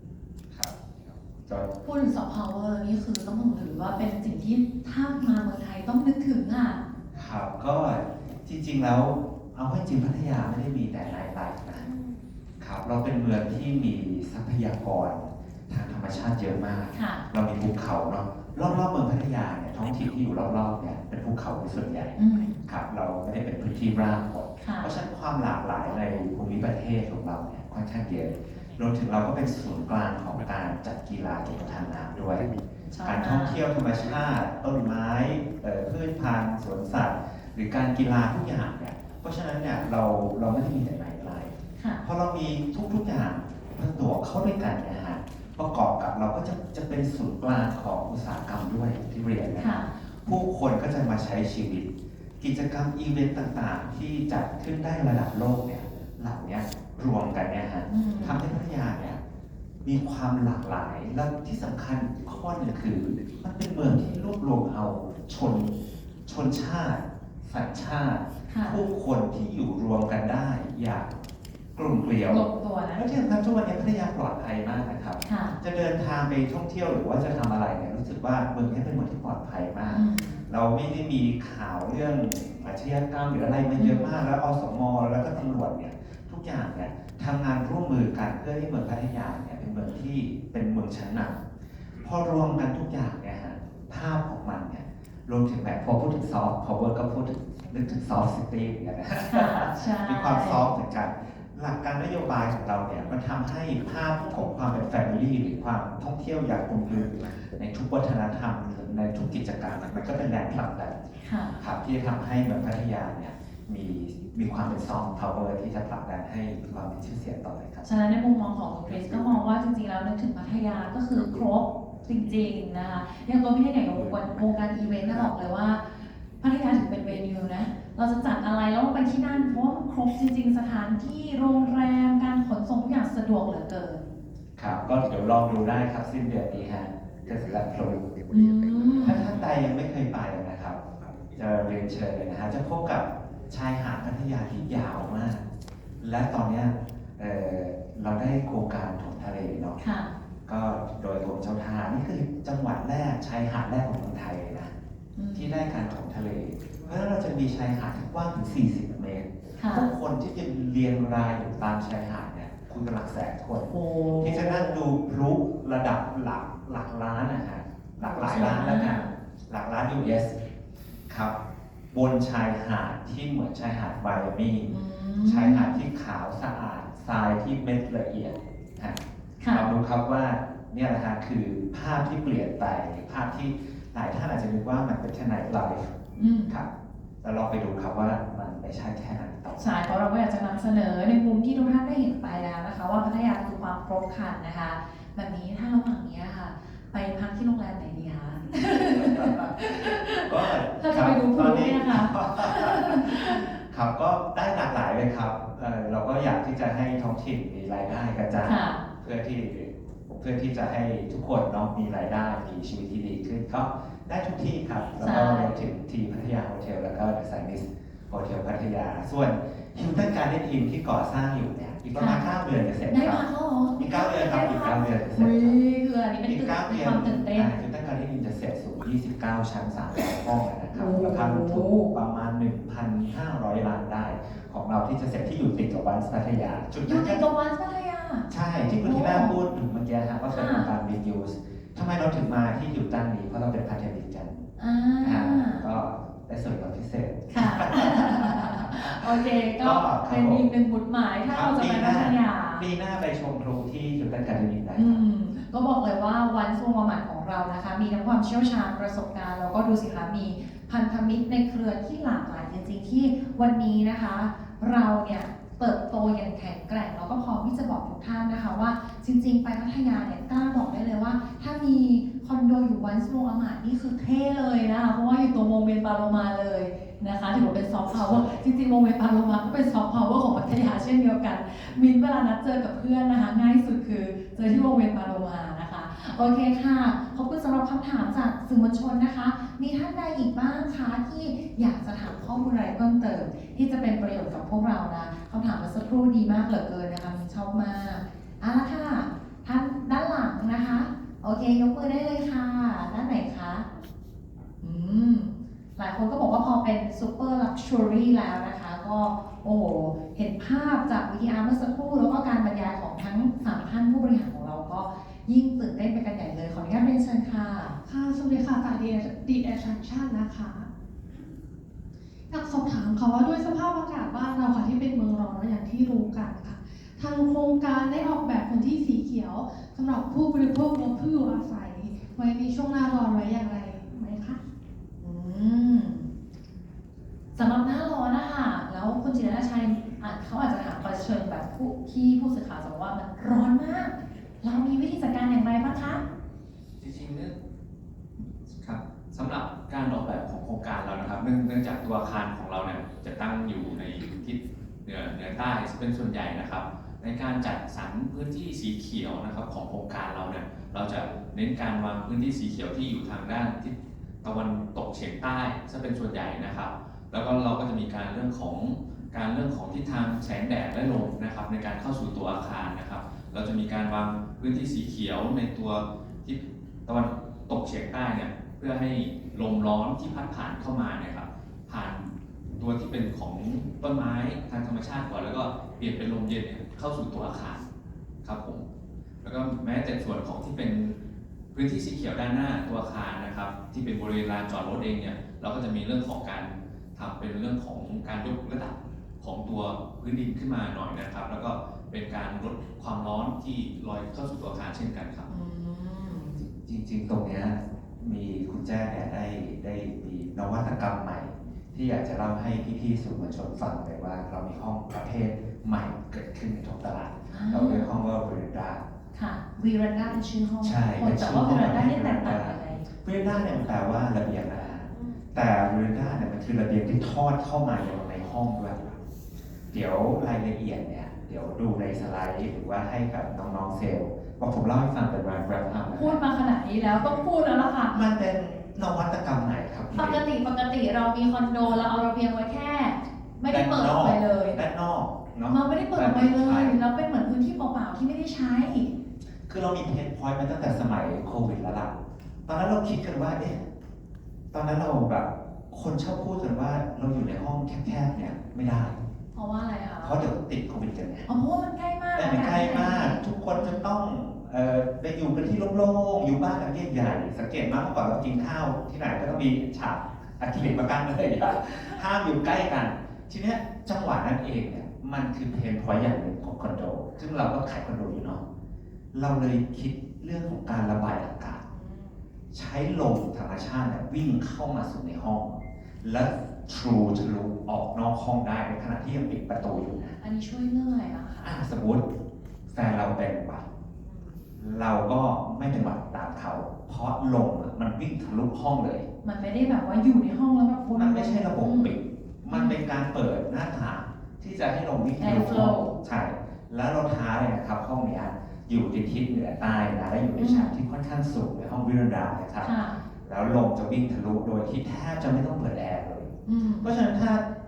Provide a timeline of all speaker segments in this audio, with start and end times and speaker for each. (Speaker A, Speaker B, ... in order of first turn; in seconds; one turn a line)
Speaker A: 0.5-1.7
Speaker B: 1.8-6.8
Speaker A: 7.1-11.9
Speaker B: 11.9-12.2
Speaker A: 12.6-32.5
Speaker B: 16.9-17.2
Speaker B: 22.2-22.6
Speaker B: 24.6-25.0
Speaker B: 32.8-33.6
Speaker A: 33.0-59.2
Speaker B: 41.8-42.0
Speaker B: 49.6-49.9
Speaker B: 57.9-58.4
Speaker A: 59.8-65.7
Speaker A: 66.3-71.1
Speaker B: 68.5-68.8
Speaker A: 71.8-91.4
Speaker B: 72.2-73.0
Speaker B: 75.2-75.6
Speaker B: 79.9-80.4
Speaker B: 83.8-84.1
Speaker A: 92.0-111.0
Speaker B: 99.3-100.7
Speaker B: 111.2-111.6
Speaker A: 111.6-117.9
Speaker B: 117.8-134.0
Speaker A: 134.6-138.0
Speaker B: 138.3-139.3
Speaker A: 139.0-140.8
Speaker A: 141.3-145.4
Speaker A: 146.0-149.8
Speaker B: 149.8-150.1
Speaker A: 150.5-154.7
Speaker B: 155.2-155.6
Speaker A: 155.3-170.4
Speaker B: 159.6-159.9
Speaker B: 163.7-164.8
Speaker B: 168.0-169.1
Speaker A: 171.1-171.3
Speaker A: 171.9-185.9
Speaker B: 174.7-175.7
Speaker B: 179.4-179.7
Speaker B: 186.2-186.6
Speaker A: 187.2-189.7
Speaker B: 189.6-203.4
Speaker A: 199.3-225.6
Speaker B: 208.4-208.9
Speaker B: 215.0-215.6
Speaker B: 221.9-222.3
Speaker B: 222.9-227.5
Speaker A: 226.2-237.3
Speaker B: 230.7-231.9
Speaker B: 236.8-238.3
Speaker A: 238.3-244.4
Speaker B: 238.8-239.3
Speaker B: 240.3-240.7
Speaker B: 244.6-245.7
Speaker A: 245.0-250.5
Speaker B: 247.3-252.7
Speaker A: 251.3-255.0
Speaker B: 254.8-303.7
Speaker A: 277.9-278.4
Speaker B: 304.6-317.8
Speaker C: 317.8-320.7
Speaker C: 322.3-334.4
Speaker B: 335.0-336.1
Speaker B: 337.4-346.0
Speaker D: 346.8-347.4
Speaker D: 348.5-387.7
Speaker D: 388.2-388.6
Speaker D: 389.2-391.0
Speaker D: 391.5-405.3
Speaker B: 405.3-406.4
Speaker A: 406.5-418.9
Speaker B: 417.3-417.9
Speaker B: 419.1-422.9
Speaker A: 420.6-428.8
Speaker A: 429.7-436.2
Speaker B: 435.9-438.0
Speaker A: 437.9-440.3
Speaker B: 439.9-444.6
Speaker A: 443.5-446.8
Speaker B: 445.5-448.9
Speaker A: 449.5-451.9
Speaker A: 452.5-453.6
Speaker A: 454.5-459.0
Speaker B: 459.3-460.2
Speaker A: 460.0-461.3
Speaker B: 461.3-463.9
Speaker A: 462.1-478.4
Speaker A: 479.1-481.6
Speaker B: 481.6-482.3
Speaker A: 482.5-490.2
Speaker B: 490.2-491.6
Speaker A: 491.4-492.1
Speaker A: 492.7-493.7
Speaker B: 494.1-494.4
Speaker A: 494.6-499.1
Speaker B: 499.2-502.0
Speaker A: 500.9-517.4
Speaker B: 502.5-502.8
Speaker B: 505.2-505.9
Speaker B: 510.4-510.7
Speaker B: 512.6-513.0
Speaker B: 516.5-516.9